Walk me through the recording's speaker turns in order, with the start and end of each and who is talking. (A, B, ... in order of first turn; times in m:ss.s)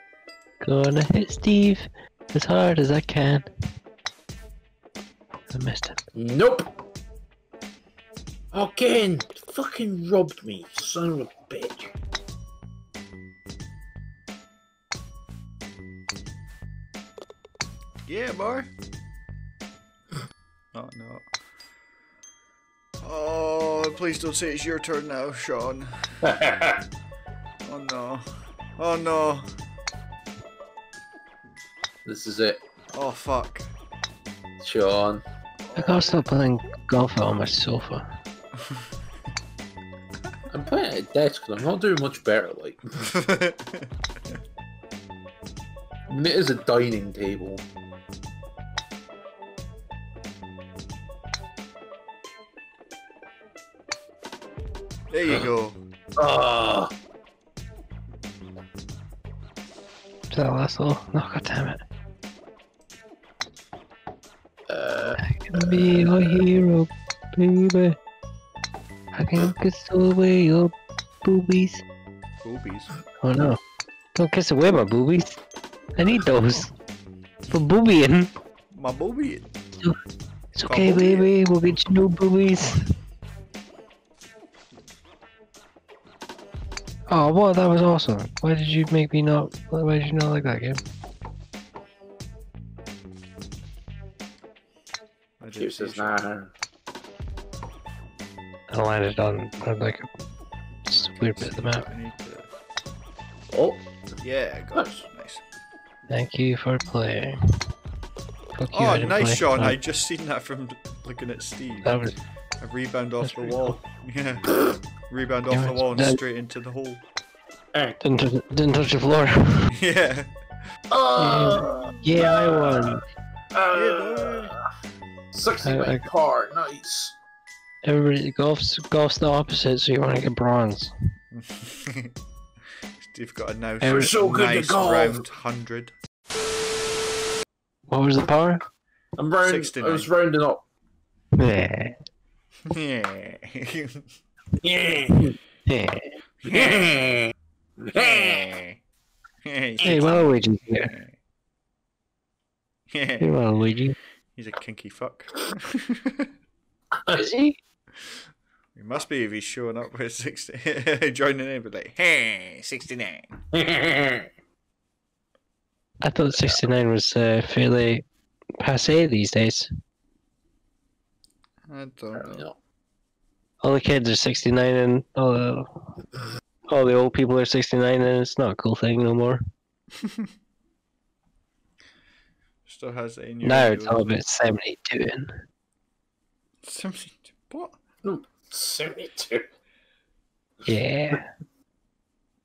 0:00.6-0:03.4 A
0:05.5-0:06.0 A
0:06.1-0:06.7 B
0:08.5-0:11.9 B
0:18.0-0:18.7 C
0:20.7-0:21.2 C
0:23.0-0:26.2 C
0:26.2-0:26.8 B
0:27.6-0:28.2 C
0:28.8-0:29.4 C
0:32.0-0:32.6 B
0:32.9-0:33.7 C
0:34.6-0:35.2 B
0:35.6-0:36.2 C
0:35.8-0:38.1 A
0:40.5-0:43.1 B
0:43.1-0:43.9 C
0:46.1-0:47.6 B
0:55.1-0:55.8 C
0:56.2-0:56.9 B
1:00.3-1:01.8 A
1:04.7-1:06.4 B
1:05.2-1:08.0 A
1:09.1-1:10.7 A
1:11.2-1:11.8 A
1:12.4-1:12.9 C
1:13.2-1:13.6 A
1:14.1-1:15.4 A
1:16.0-1:16.7 A
1:17.5-1:18.3 A
1:18.7-1:19.5 C
1:20.5-1:22.8 A
1:20.6-1:21.3 C
1:27.1-1:30.8 A
1:35.4-1:36.2 C
1:35.6-1:36.5 B
1:38.7-1:40.1 A
1:40.9-1:41.8 A
1:40.9-1:42.5 C
1:43.5-1:43.8 B
1:44.2-1:45.4 C
1:44.7-1:45.1 B
1:46.1-1:47.4 A
1:48.5-1:49.8 A
1:48.7-1:57.0 C
1:51.8-1:52.2 A
1:53.2-1:53.8 A
1:55.5-1:56.2 A
1:57.7-1:58.0 B
1:58.0-1:59.7 A
1:59.7-2:00.3 C
2:00.9-2:03.0 B
2:01.2-2:03.0 A
2:03.5-2:04.6 B
2:03.7-2:04.5 C
2:05.3-2:07.1 B
2:05.6-2:06.1 A
2:07.8-2:10.9 A
2:11.3-2:12.1 C
2:13.0-2:15.9 C
2:13.8-2:14.2 A
2:13.8-2:15.2 B
2:17.9-2:18.6 A
2:19.2-2:20.6 B
2:19.4-2:20.1 C
2:21.4-2:22.0 A
2:22.7-2:24.0 C
2:24.6-2:25.4 B
2:25.7-2:26.2 A
2:26.4-2:27.1 C
2:26.5-2:28.5 B
2:27.9-2:28.8 C
2:29.4-2:31.1 C
2:29.8-2:30.1 B
2:29.8-2:30.9 A
2:32.9-2:33.4 C
2:33.2-2:34.0 A
2:34.4-2:36.3 C
2:37.2-2:37.6 A
2:38.7-2:43.3 C
2:43.5-2:44.3 B
2:46.0-2:48.0 A
2:46.3-2:46.6 B
2:48.6-2:49.7 A
2:51.7-2:52.4 C
2:52.1-2:52.6 B
2:53.6-2:55.9 A
2:56.7-2:59.4 A
3:02.6-3:04.2 C
3:03.4-3:05.3 A
3:06.6-3:07.8 C
3:08.0-3:09.5 B
3:10.6-3:11.3 A